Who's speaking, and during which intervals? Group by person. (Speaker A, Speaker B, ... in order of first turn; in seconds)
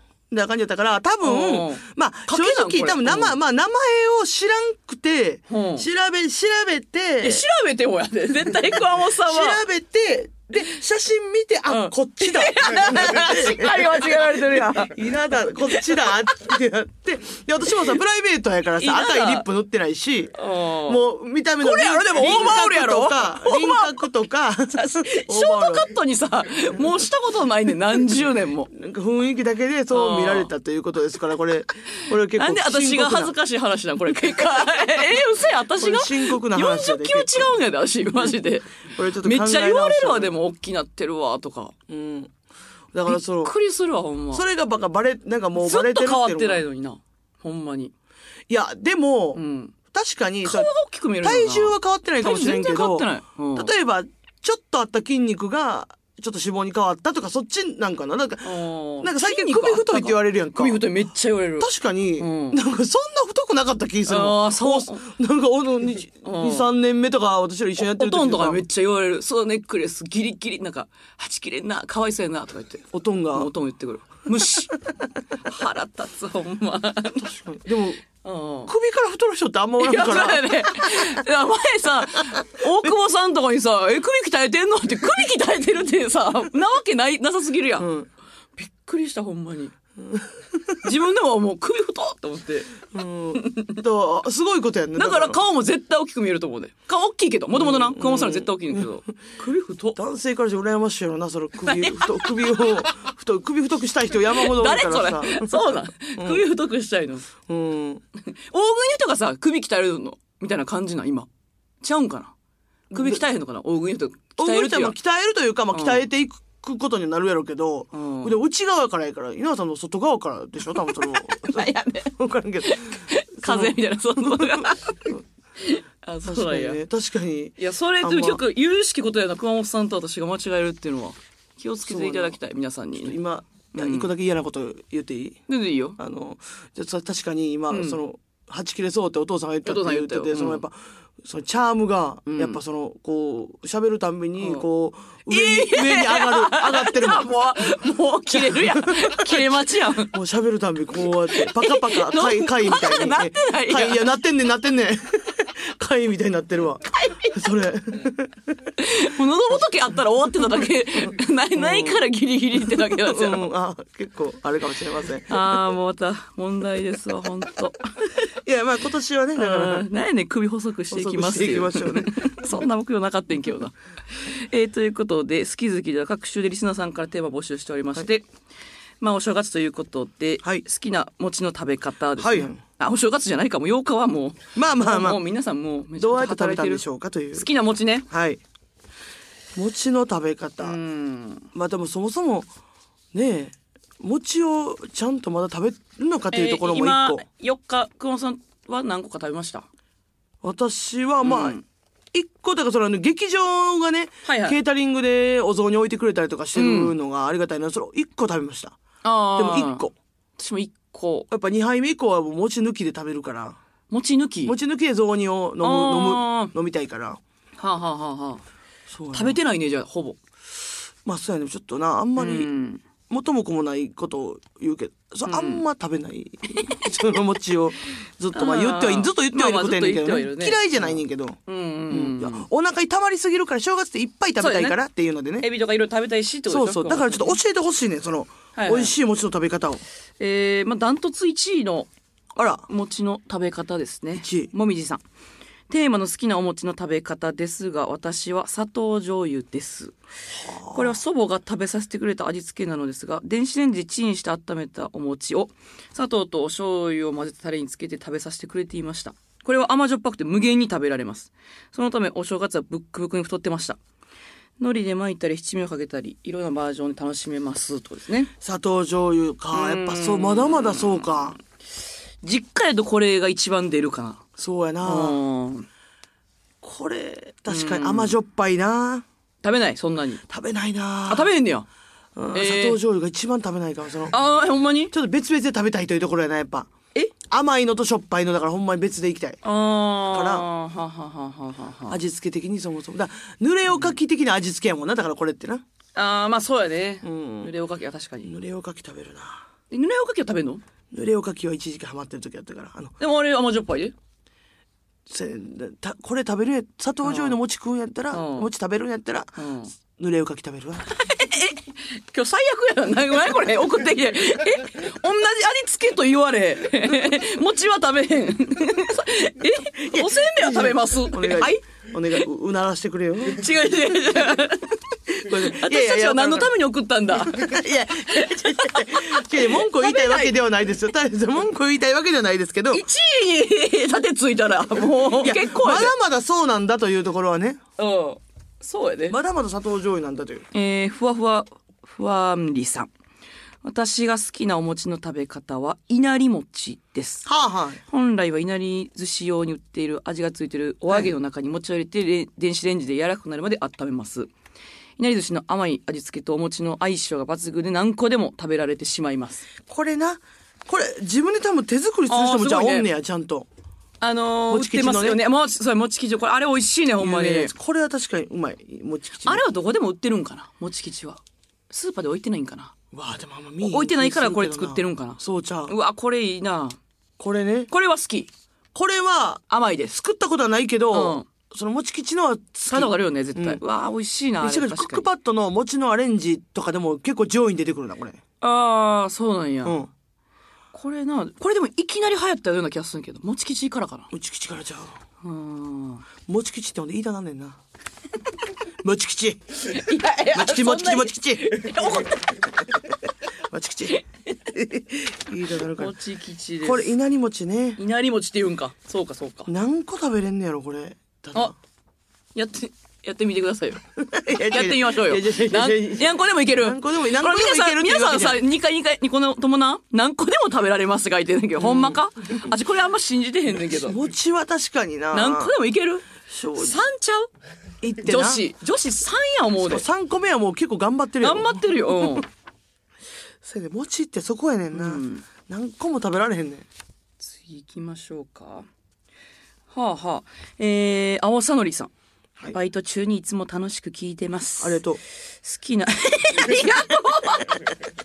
Speaker A: 0.3-7.4, 9.2-25.9, 28.7-33.3, 35.8-37.5, 38.9-40.3, 41.9-42.3, 42.9-43.5, 44.3-46.6, 48.5-50.7, 51.2-60.9, 61.6-68.6, 72.9-73.5, 77.2-78.0, 78.7-81.1, 87.8-88.1, 90.0-90.8, 92.9-95.4, 97.5-98.9, 99.9-105.6, 106.2-106.4, 107.4-108.0, 112.9-113.2, 114.4-125.2, 126.2-128.4, 131.8-132.4, 132.9-135.4, 136.0-147.3, 148.3-149.3, 150.1-158.5, 161.6-162.0, 162.7-165.4, 168.4-169.8, 170.9-172.2, 182.2-182.6, 184.5-185.2, 186.0-187.5, 188.1-188.4, 189.5-190.8, 191.5-192.5, 193.1-197.2, 200.4-201.6, 202.1-208.8, 209.3-209.9, 211.3-213.6, 214.4-217.2, 218.9-219.4, 221.0-222.5, 223.1-231.4, 231.9-235.5, 236.5-239.8, 242.3-242.7, 244.2-244.5, 250.4-251.0, 268.4-271.4, 274.4-275.2, 276.6-279.1, 280.3-281.3, 282.1-284.1, 284.9-286.7, 287.3-289.4, 290.1-290.4, 291.9-295.6, 297.0-297.5, 298.2-299.4, 300.9-303.0, 305.1-310.9, 319.8-323.5, 325.1-326.5, 327.1-332.8, 335.1-337.6, 339.1-340.5, 347.2-347.8, 359.7-363.5, 364.5-365.2, 367.0-369.4, 372.9-375.7, 377.2-377.7, 378.7-383.6, 384.4-388.2, 389.6-389.9, 394.1-395.0, 396.2-397.6, 398.8-402.0, 403.5-405.9, 406.6-407.8, 409.5-411.5, 414.0-418.4, 421.6-422.0, 423.7-425.5, 426.2-426.8, 427.8-428.4, 429.6-432.2, 433.4-436.6, 444.6-445.0
Speaker B: 1.2-3.3, 5.5-5.9, 7.2-9.6, 11.7-15.0, 15.7-16.1, 18.8-19.4, 20.3-21.0, 21.6-24.0, 24.7-28.7, 29.9-30.5, 32.4-41.7, 43.0-44.4, 45.5-47.9, 49.3-49.7, 50.4-53.7, 58.4-62.6, 64.1-65.0, 66.2-66.7, 67.8-74.8, 75.4-77.3, 78.2-78.7, 79.8-87.9, 88.6-89.7, 90.8-92.8, 93.3-93.8, 95.0-100.0, 101.6-102.6, 104.3-107.3, 108.3-111.3, 111.8-112.3, 112.9-115.0, 115.7-116.0, 117.9-118.3, 121.3-126.8, 127.6-133.2, 133.7-134.1, 135.5-136.0, 137.7-138.0, 139.6-140.6, 142.3-142.6, 145.2-150.1, 151.3-154.0, 158.8-163.4, 165.3-168.3, 169.3-178.3, 179.0-186.8, 187.3-188.1, 190.6-191.5, 196.3-199.7, 201.2-201.6, 204.2-204.6, 206.5-206.9, 209.0-209.8, 210.4-211.3, 213.9-214.5, 215.6-216.5, 217.6-218.4, 219.1-220.2, 222.2-222.8, 225.2-225.6, 228.3-232.5, 234.4-234.8, 235.4-237.4, 238.6-238.9, 240.2-241.9, 242.7-245.0, 245.7-249.9, 250.7-263.8, 264.6-268.3, 269.5-271.3, 272.2-274.2, 274.8-275.6, 277.5-278.1, 279.4-280.2, 281.1-281.7, 282.3-282.8, 284.1-284.9, 289.4-292.0, 295.9-298.3, 299.7-300.6, 303.0-303.9, 307.0-307.4, 308.1-308.5, 309.4-309.7, 310.9-321.6, 323.2-330.3, 332.7-335.9, 337.8-339.2, 340.5-342.9, 343.6-347.2, 347.9-354.3, 355.0-359.4, 362.1-362.9, 364.0-367.5, 369.2-372.7, 373.6-376.8, 377.7-378.3, 379.5-380.0, 380.9-381.3, 382.7-385.1, 388.4-389.8, 390.7-394.1, 395.2-396.1, 399.7-402.4, 405.8-406.9, 407.8-409.5, 412.3-413.8, 414.3-423.9, 425.1-427.3, 428.0-429.8, 431.2-432.2, 434.7-435.2, 437.2-438.7, 439.7-441.9, 442.5-444.8, 445.4-447.6